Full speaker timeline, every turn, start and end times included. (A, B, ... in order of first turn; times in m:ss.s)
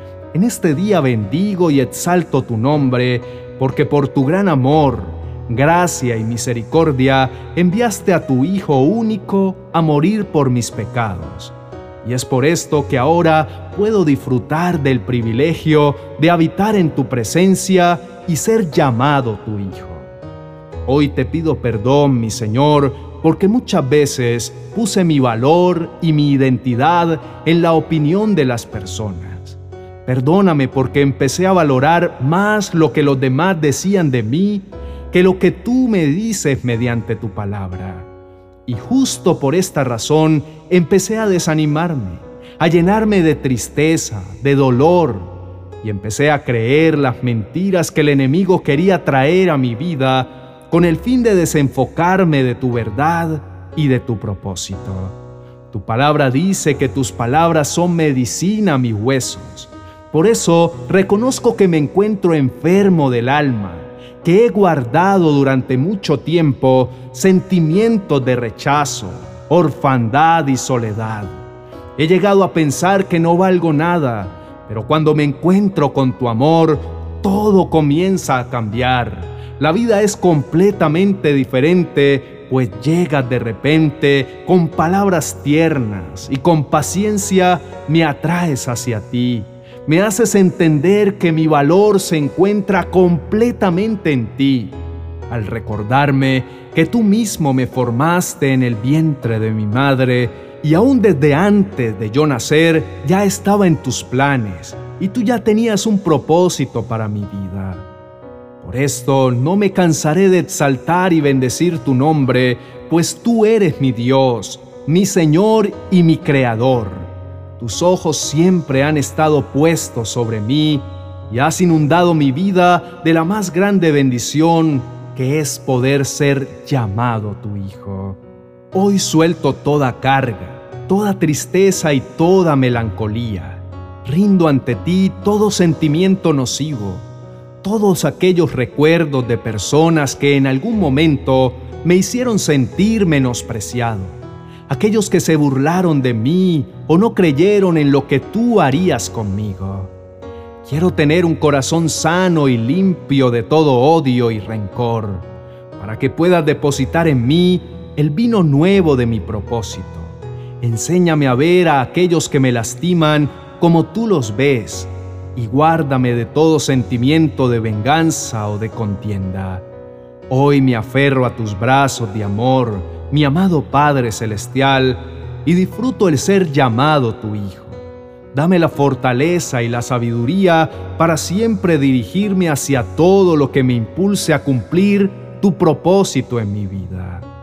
0:00.3-0:20.1 A
0:20.8-0:38.1 A
0:38.6-0:55.2 A
0:55.7-1:11.4 A
1:12.0-1:34.8 A
1:35.3-1:47.8 A
1:48.6-2:08.2 A
2:08.7-2:17.0 A
2:17.6-2:29.9 A
2:30.6-2:49.6 A
2:50.3-3:07.3 A